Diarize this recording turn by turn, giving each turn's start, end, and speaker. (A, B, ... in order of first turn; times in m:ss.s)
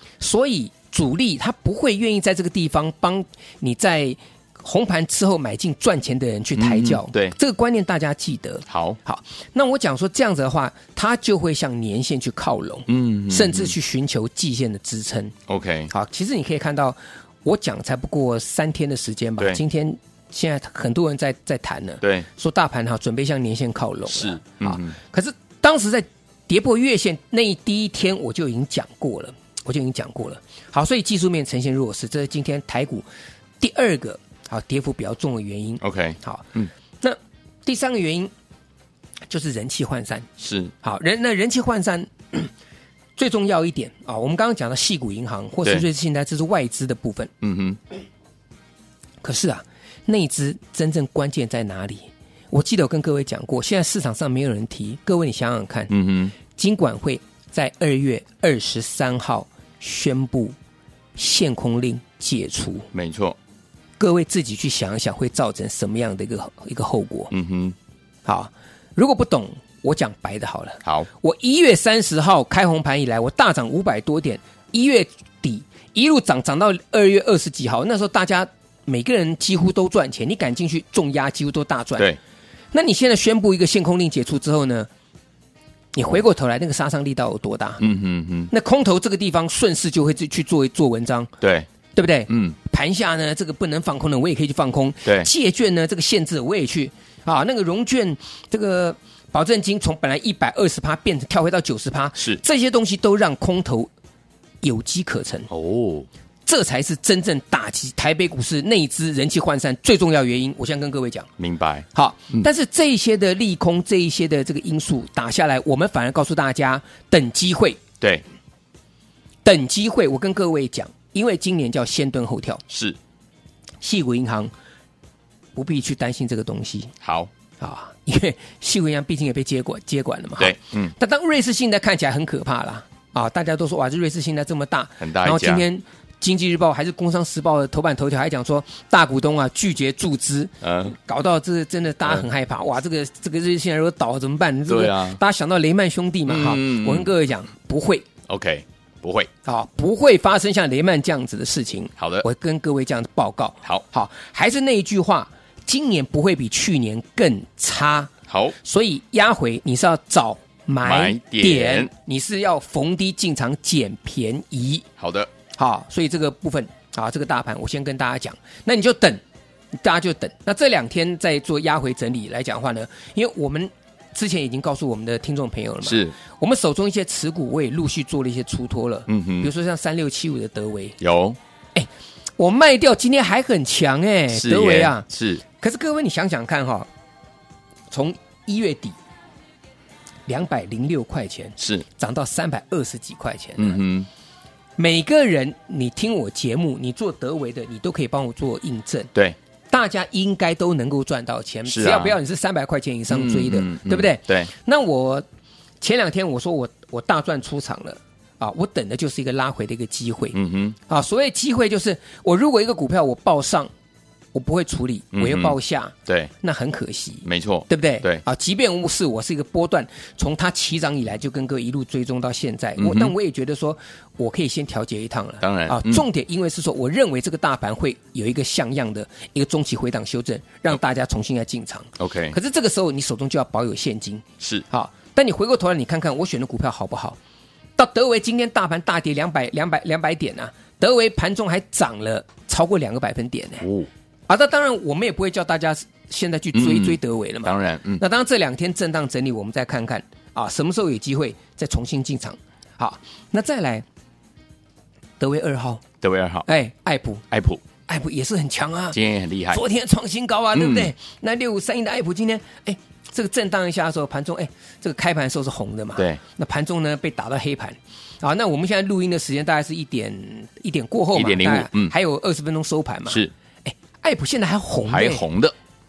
0:00.2-0:15.3 A
0:06.6-0:07.3 B
0:08.7-0:09.0 B
0:12.9-0:13.7 B
0:15.5-0:15.9 B
0:15.9-0:33.0 A
0:22.0-0:22.3 B
0:24.1-0:25.0 B
0:33.6-0:36.5 A
0:35.8-0:36.7 B
0:37.0-0:38.3 A
0:39.3-0:40.3 A
0:40.4-0:40.7 B
0:40.8-0:42.5 A
0:43.2-0:47.3 A
0:47.4-0:47.8 B
0:49.2-0:55.9 A
0:55.9-0:56.3 B
0:56.5-1:00.5 A
1:01.2-1:02.9 A
1:02.9-1:03.4 B
1:04.0-1:07.3 A
1:07.3-1:07.7 B
1:08.2-1:22.1 A
1:22.7-1:24.9 A
1:25.9-1:27.8 A
1:27.8-1:28.5 B
1:28.5-1:31.3 A
1:31.4-1:31.7 B
1:32.0-1:43.9 A
1:32.3-1:32.6 B
1:44.6-1:45.5 A
1:45.5-1:46.1 B
1:46.4-1:51.3 A
1:51.4-1:52.4 B
1:51.9-1:57.8 A
1:59.4-2:02.6 A
2:02.7-2:03.0 B
2:03.8-2:04.5 A
2:05.5-2:06.9 A
2:07.0-2:07.3 B
2:07.6-2:28.0 A
2:10.4-2:10.9 B
2:15.0-2:15.6 B
2:20.6-2:21.0 B
2:24.7-2:25.2 B
2:26.3-2:27.1 B
2:28.3-2:29.3 B
2:29.4-2:44.8 A
2:32.0-2:32.2 B
2:38.3-2:38.5 B
2:40.8-2:41.9 B
2:45.0-2:45.3 B
2:45.5-2:49.2 A
2:49.8-3:01.0 A
2:55.8-2:56.1 B
2:59.1-2:59.5 B
3:01.0-3:01.4 B
3:01.7-3:06.9 A
3:04.3-3:05.4 B
3:07.9-3:09.0 A
3:10.3-3:13.8 A
3:11.6-3:11.8 B
3:13.6-3:14.1 B
3:14.8-3:19.1 A
3:19.7-3:25.2 A
3:21.7-3:22.2 B
3:23.1-3:24.5 B
3:25.8-3:33.7 A
3:30.3-3:30.8 B
3:34.3-3:57.2 A
3:35.1-3:36.3 B
3:37.2-3:38.2 B
3:42.8-3:43.1 B
3:45.4-3:46.0 B
3:52.0-3:52.4 B
3:57.8-4:03.6 A
4:03.6-4:03.9 B
4:04.3-4:13.8 A
4:06.5-4:08.0 B
4:15.2-4:15.8 A
4:16.0-4:16.4 B
4:16.4-4:17.2 A
4:17.3-4:17.6 B
4:17.9-4:19.0 A
4:18.9-4:19.6 B
4:19.5-4:35.2 A
4:20.5-4:20.9 B
4:31.1-4:31.9 B
4:34.9-4:35.5 B